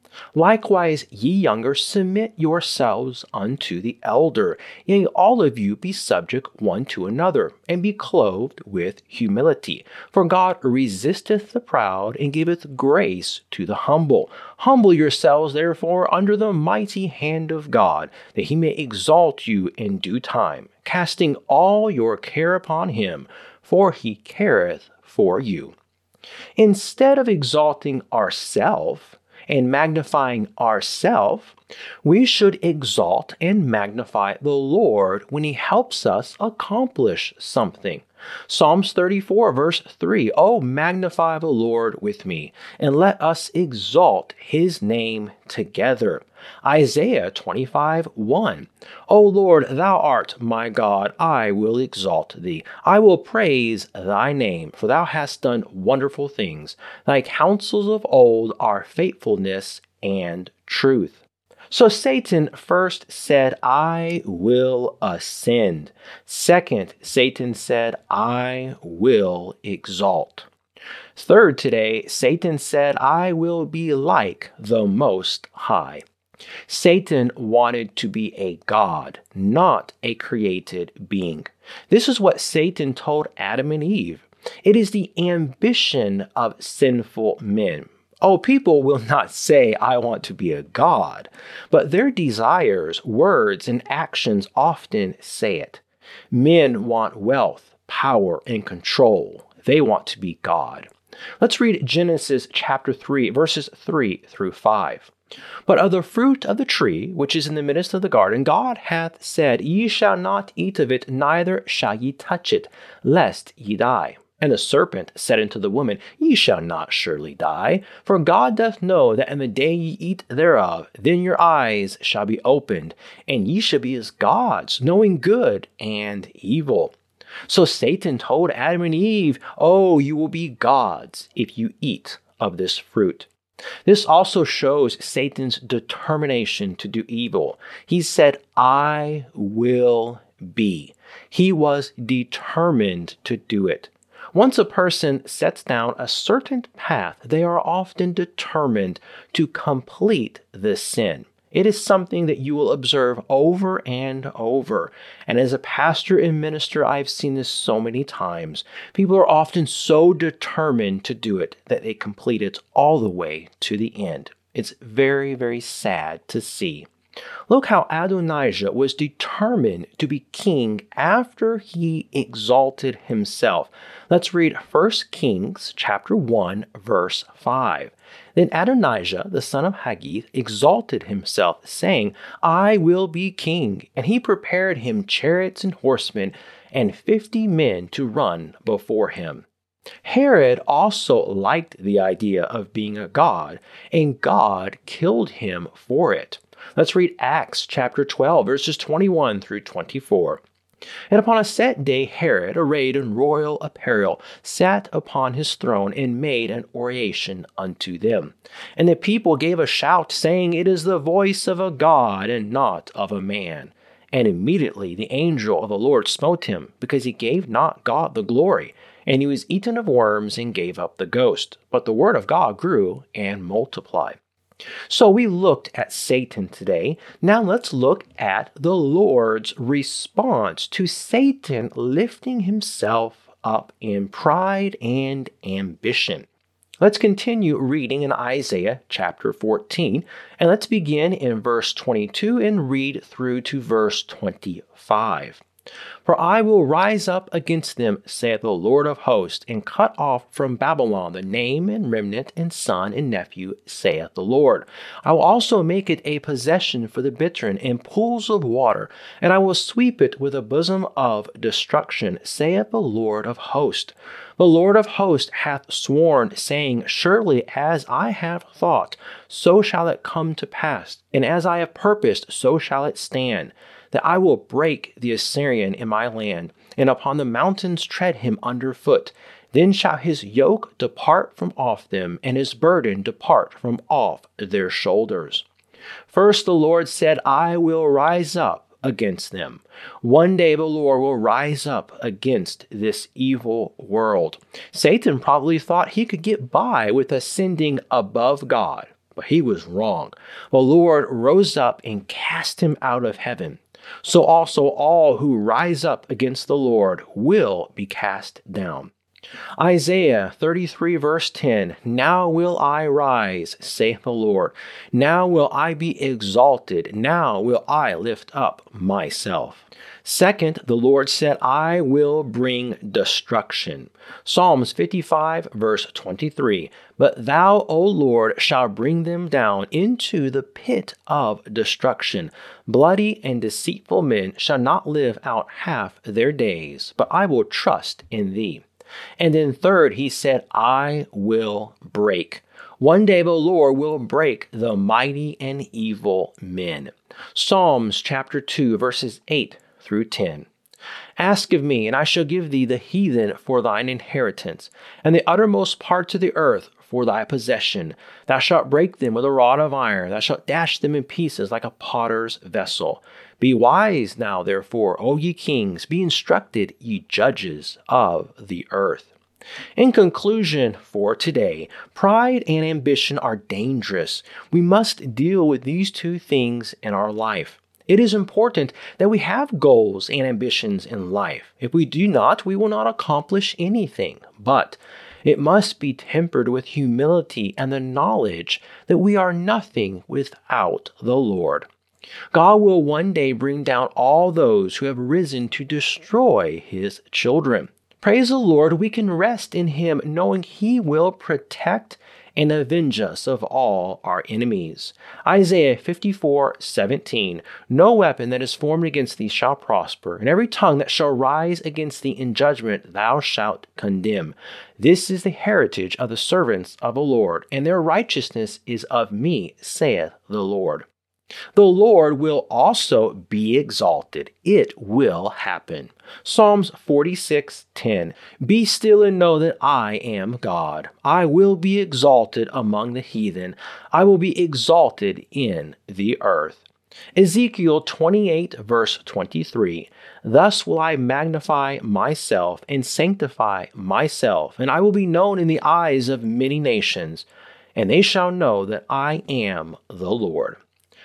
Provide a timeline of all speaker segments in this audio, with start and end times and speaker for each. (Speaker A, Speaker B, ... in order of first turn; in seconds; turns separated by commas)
Speaker A: 0.3-25.8, Speaker A: 26.6-70.5, Speaker A: 71.2-76.0, Speaker A: 76.7-105.1, Speaker A: 105.7-127.0, Speaker A: 127.5-133.3, Speaker A: 133.8-166.9, Speaker A: 167.5-189.4, Speaker A: 190.0-200.4, Speaker A: 201.1-224.2, Speaker A: 224.9-236.3, Speaker A: 236.8-245.4, Speaker A: 246.1-285.5, Speaker A: 286.1-308.9, Speaker A: 309.6-338.6, Speaker A: 339.2-350.5, Speaker A: 351.2-369.1, Speaker A: 369.8-391.7, Speaker A: 392.3-420.9, Speaker A: 421.6-450.6